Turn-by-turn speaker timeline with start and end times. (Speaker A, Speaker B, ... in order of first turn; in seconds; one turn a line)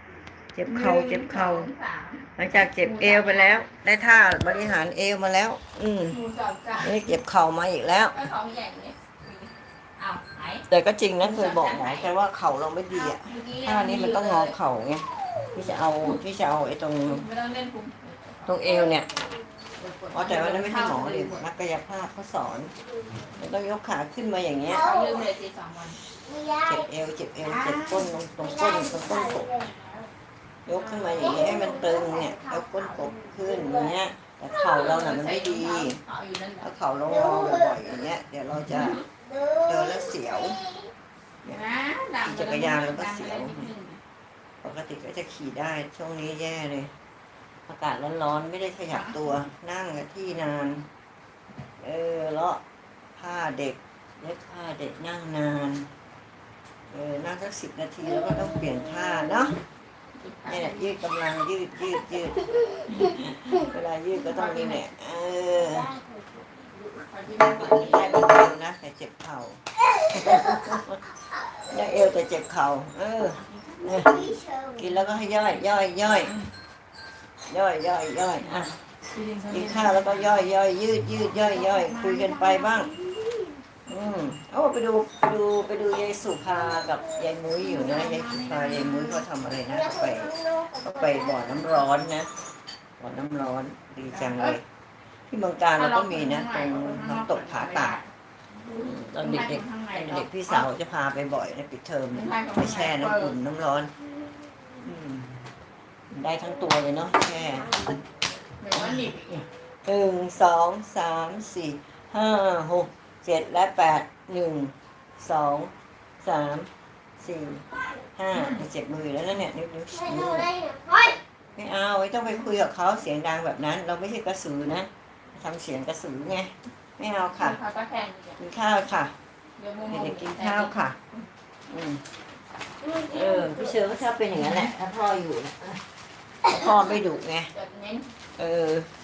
Speaker A: 0.6-1.7
Speaker B: 0.7-3.7
Speaker A: 2.4-6.2
Speaker B: 6.1-6.9
Speaker A: 6.8-8.2
Speaker B: 8.1-10.7
Speaker A: 10.7-17.3
Speaker B: 11.2-12.1
Speaker B: 12.9-14.6
Speaker B: 17.1-18.5
Speaker A: 18.4-19.1
Speaker C: 18.7-19.2
Speaker B: 19.8-21.5
Speaker A: 20.1-22.7
Speaker A: 23.4-24.9
Speaker C: 24.7-25.2
Speaker B: 24.7-26.0
Speaker C: 26.2-26.9
Speaker A: 26.7-29.5
Speaker B: 27.4-28.2
Speaker C: 28.4-30.1
Speaker A: 30.7-36.0
Speaker C: 31.0-33.9
Speaker B: 34.6-36.7
Speaker A: 36.6-39.0
Speaker C: 37.1-37.8
Speaker B: 38.7-39.1
Speaker C: 39.2-40.9
Speaker A: 39.6-40.6
Speaker B: 41.5-44.0
Speaker A: 42.2-43.7
Speaker A: 44.6-46.9
Speaker A: 47.7-50.9
Speaker B: 48.9-49.4
Speaker A: 51.8-52.6
Speaker A: 53.2-55.9
Speaker A: 56.9-59.6
Speaker B: 60.2-60.9
Speaker A: 60.5-65.9
Speaker B: 64.2-64.8
Speaker C: 65.5-66.4
Speaker B: 66.6-68.5
Speaker A: 67.3-71.0
Speaker C: 70.1-70.7
Speaker A: 71.7-74.2
Speaker B: 73.2-74.3
Speaker C: 73.9-74.9
Speaker A: 74.8-76.4
Speaker A: 77.5-78.8
Speaker B: 79.1-80.4
Speaker A: 79.5-82.9
Speaker B: 81.5-82.9
Speaker C: 83.0-83.5
Speaker A: 83.9-92.3
Speaker B: 87.7-89.2
Speaker C: 89.7-91.7
Speaker A: 93.0-94.6
Speaker B: 94.1-94.6
Speaker A: 95.3-98.0
Speaker B: 95.8-98.1
Speaker B: 98.7-100.7
Speaker A: 98.7-103.9
Speaker B: 102.1-103.4
Speaker A: 104.8-105.4
Speaker A: 106.1-108.0
Speaker C: 107.6-107.9
Speaker B: 108.6-109.4
Speaker A: 108.7-120.5
Speaker B: 118.3-118.6
Speaker C: 119.9-121.2
Speaker A: 121.6-127.6
Speaker B: 127.3-128.4
Speaker A: 128.4-129.1
Speaker B: 129.6-131.2
Speaker A: 129.9-131.0
Speaker A: 131.7-132.0
Speaker C: 132.8-133.7
Speaker A: 133.1-135.8
Speaker A: 136.4-137.5
Speaker B: 137.5-138.1
Speaker A: 138.4-138.9